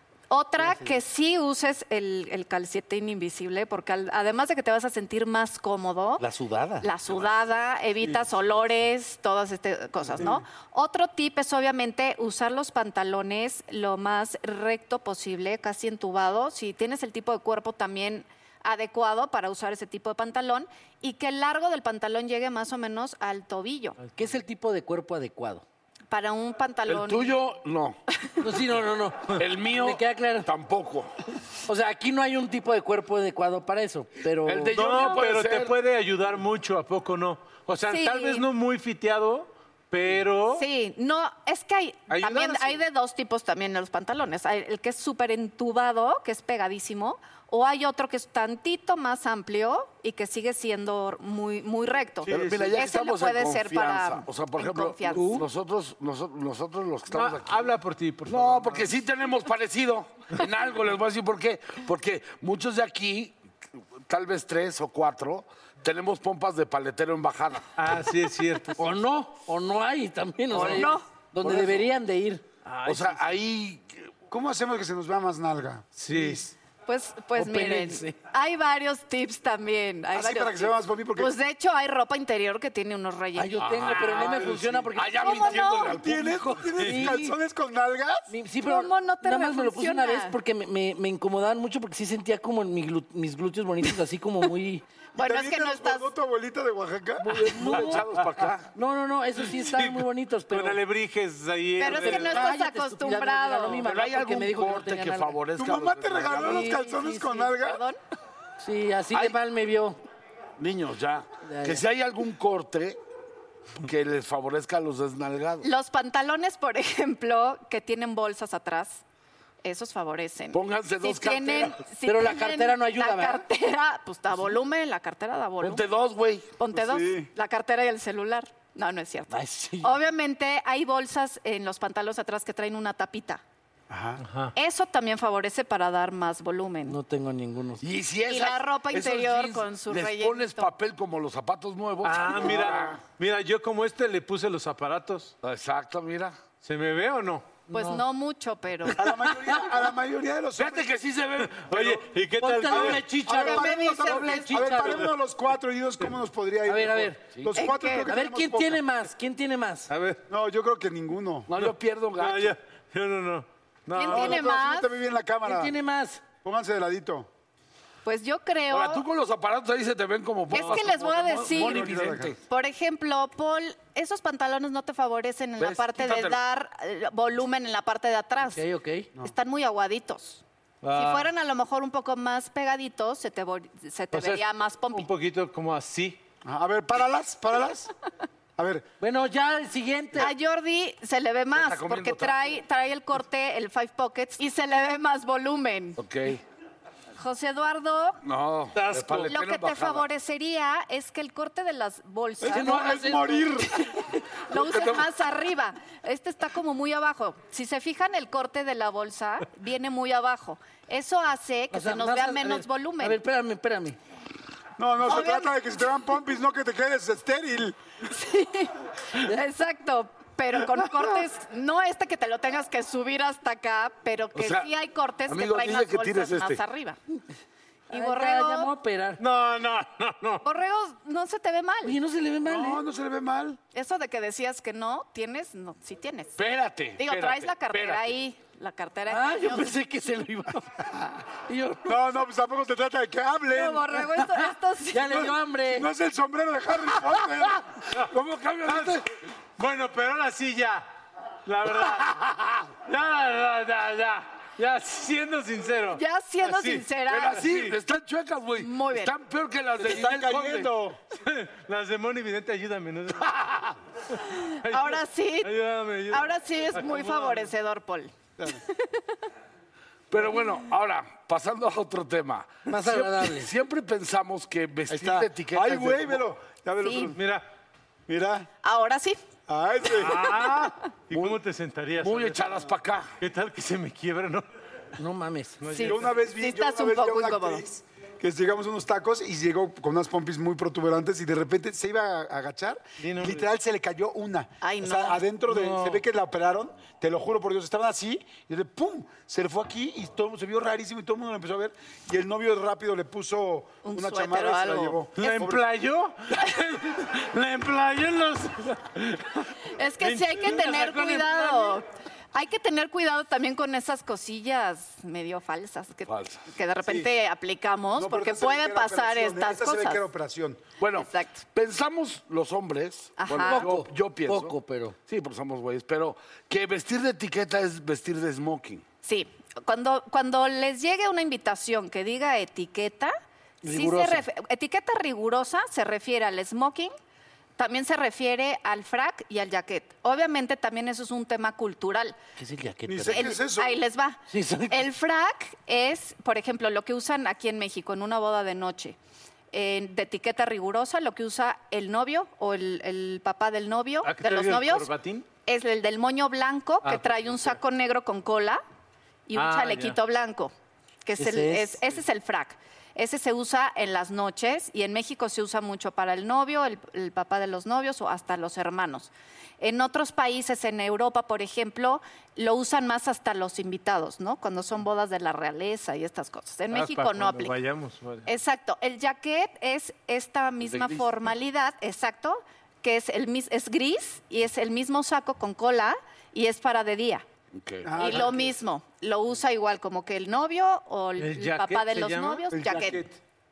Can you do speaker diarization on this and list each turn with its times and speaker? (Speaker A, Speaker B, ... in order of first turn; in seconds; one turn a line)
Speaker A: 0.3-6.2
Speaker B: 0.6-0.9
Speaker B: 6.2-6.9
Speaker A: 6.8-24.0
Speaker B: 24.1-25.6
Speaker A: 26.1-27.4
Speaker C: 26.9-28.0
Speaker B: 28.4-30.5
Speaker C: 29.4-31.1
Speaker B: 31.7-34.8
Speaker C: 34.4-35.7
Speaker D: 34.7-40.6
Speaker A: 37.9-38.5
Speaker A: 40.5-55.4
Speaker D: 42.1-42.8
Speaker C: 52.2-57.6
Speaker D: 52.3-52.8
Speaker B: 55.1-55.4
Speaker D: 57.1-58.9
Speaker C: 58.3-63.4
Speaker C: 64.1-67.6
Speaker D: 67.8-69.0
Speaker B: 68.8-72.4
Speaker C: 70.5-70.9
Speaker A: 70.7-71.0
Speaker C: 71.4-71.9
Speaker D: 72.6-73.4
Speaker C: 72.8-74.1
Speaker E: 74.3-76.5
Speaker D: 76.0-76.4
Speaker A: 76.8-84.2
Speaker B: 77.3-78.2
Speaker E: 80.1-81.3
Speaker B: 83.3-85.6
Speaker C: 83.6-86.5
Speaker A: 85.1-85.9
Speaker E: 85.6-88.3
Speaker B: 86.7-87.3
Speaker B: 88.3-94.8
Speaker A: 88.6-90.3
Speaker A: 95.1-96.1
Speaker E: 95.2-97.3
Speaker B: 97.2-98.0
Speaker C: 97.5-98.7
Speaker B: 98.7-100.8
Speaker D: 99.6-102.4
Speaker A: 101.8-103.9
Speaker B: 101.9-105.4
Speaker C: 103.8-106.6
Speaker E: 105.6-107.8
Speaker B: 106.3-107.0
Speaker A: 106.7-108.0
Speaker B: 108.6-110.0
Speaker C: 110.6-113.0
Speaker B: 111.4-111.8
Speaker C: 113.8-115.7
Speaker A: 115.6-119.0
Speaker A: 119.6-125.8
Speaker C: 120.5-121.8
Speaker B: 122.0-123.4
Speaker C: 125.6-126.5
Speaker A: 126.6-133.4
Speaker E: 126.7-127.3
Speaker B: 129.3-130.0
Speaker E: 133.9-134.2
Speaker D: 134.2-134.5
Speaker A: 134.6-137.0
Speaker B: 136.9-137.8
Speaker C: 137.8-143.0
Speaker A: 138.2-140.7
Speaker D: 142.0-145.3
Speaker C: 145.4-146.3
Speaker D: 146.6-147.7
Speaker A: 147.7-149.0
Speaker B: 147.7-148.0
Speaker E: 148.9-150.9
Speaker C: 150.6-152.1
Speaker D: 151.4-153.1
Speaker B: 152.4-155.1
Speaker E: 152.7-158.8
Speaker A: 153.3-154.5
Speaker B: 156.7-157.3
Speaker A: 157.5-158.1
Speaker B: 158.0-159.9
Speaker D: 159.9-160.2
Speaker E: 160.3-161.5
Speaker C: 161.5-162.6
Speaker D: 161.6-164.4
Speaker A: 163.9-164.9
Speaker E: 164.1-165.7
Speaker B: 165.4-166.2
Speaker E: 166.4-167.3
Speaker A: 168.0-169.0
Speaker C: 168.7-172.4
Speaker A: 170.5-178.6
Speaker E: 171.4-172.3
Speaker C: 175.6-176.4
Speaker B: 178.4-179.1
Speaker A: 179.2-180.4
Speaker D: 180.8-181.3
Speaker A: 180.9-185.1
Speaker D: 184.1-184.4
Speaker D: 184.9-186.2
Speaker E: 186.4-187.9
Speaker E: 188.6-188.8
Speaker B: 189.0-190.3
Speaker A: 190.2-196.0
Speaker C: 191.5-192.5
Speaker C: 196.0-196.4
Speaker A: 197.2-198.2
Speaker C: 198.2-200.1
Speaker D: 198.7-199.3
Speaker A: 199.3-203.1
Speaker E: 202.4-203.9
Speaker B: 202.4-203.4
Speaker A: 203.8-213.2
Speaker C: 204.5-205.1
Speaker B: 211.7-214.0
Speaker E: 214.8-217.8
Speaker A: 215.1-215.5
Speaker A: 218.1-227.0
Speaker C: 224.3-224.7
Speaker C: 225.3-226.6
Speaker A: 227.9-228.7
Speaker B: 227.9-229.2
Speaker D: 229.2-230.4
Speaker A: 230.4-231.9
Speaker B: 231.8-232.8
Speaker E: 232.4-233.6
Speaker A: 233.7-236.4
Speaker C: 236.4-238.1
Speaker A: 237.0-239.7
Speaker B: 239.1-242.0
Speaker E: 241.8-244.0
Speaker A: 243.5-245.2
Speaker B: 244.2-245.9
Speaker E: 245.1-247.6
Speaker C: 248.1-249.0
Speaker D: 248.7-249.0
Speaker D: 249.6-250.8
Speaker D: 251.4-252.2
Speaker D: 252.8-257.8
Speaker A: 255.9-257.4
Speaker C: 257.1-260.7
Speaker A: 258.6-259.1
Speaker E: 259.8-261.0
Speaker D: 261.1-263.6
Speaker C: 263.4-263.7
Speaker D: 264.1-267.5
Speaker A: 264.4-265.5
Speaker A: 266.1-268.1
Speaker A: 268.7-269.0
Speaker C: 270.1-276.2
Speaker B: 272.7-273.5
Speaker E: 274.9-277.2
Speaker A: 276.8-277.1
Speaker D: 277.1-277.5
Speaker E: 278.1-278.5
Speaker A: 278.6-279.2
Speaker E: 279.5-280.3
Speaker D: 279.9-282.4
Speaker C: 281.1-281.4
Speaker C: 282.0-283.1
Speaker D: 283.2-284.4
Speaker B: 285.0-285.7
Speaker D: 285.6-286.2
Speaker A: 285.7-287.6
Speaker E: 285.8-305.6
Speaker D: 293.0-293.5
Speaker A: 294.6-295.2
Speaker D: 295.5-296.0
Speaker A: 303.8-305.0
Speaker D: 305.2-311.8
Speaker A: 309.7-320.0
Speaker C: 316.1-316.5
Speaker E: 317.9-320.6
Speaker C: 320.8-324.6
Speaker A: 320.9-321.4
Speaker A: 323.2-323.7
Speaker B: 323.4-324.9
Speaker C: 325.1-328.8
Speaker A: 329.0-336.9
Speaker B: 333.6-334.2
Speaker A: 337.6-342.2
Speaker B: 342.4-343.3
Speaker E: 342.9-343.8
Speaker A: 343.1-349.0
Speaker B: 344.3-344.9
Speaker A: 349.5-354.9
Speaker D: 354.0-355.2
Speaker A: 355.4-358.6
Speaker D: 356.8-357.5
Speaker A: 359.3-360.5
Speaker D: 359.3-360.0
Speaker A: 361.0-377.6
Speaker B: 361.2-361.8
Speaker D: 376.7-378.3
Speaker A: 378.2-387.2
Speaker C: 380.6-381.1
Speaker C: 387.5-388.5
Speaker E: 387.8-388.4
Speaker A: 387.9-393.0
Speaker D: 391.2-393.1
Speaker E: 392.5-393.0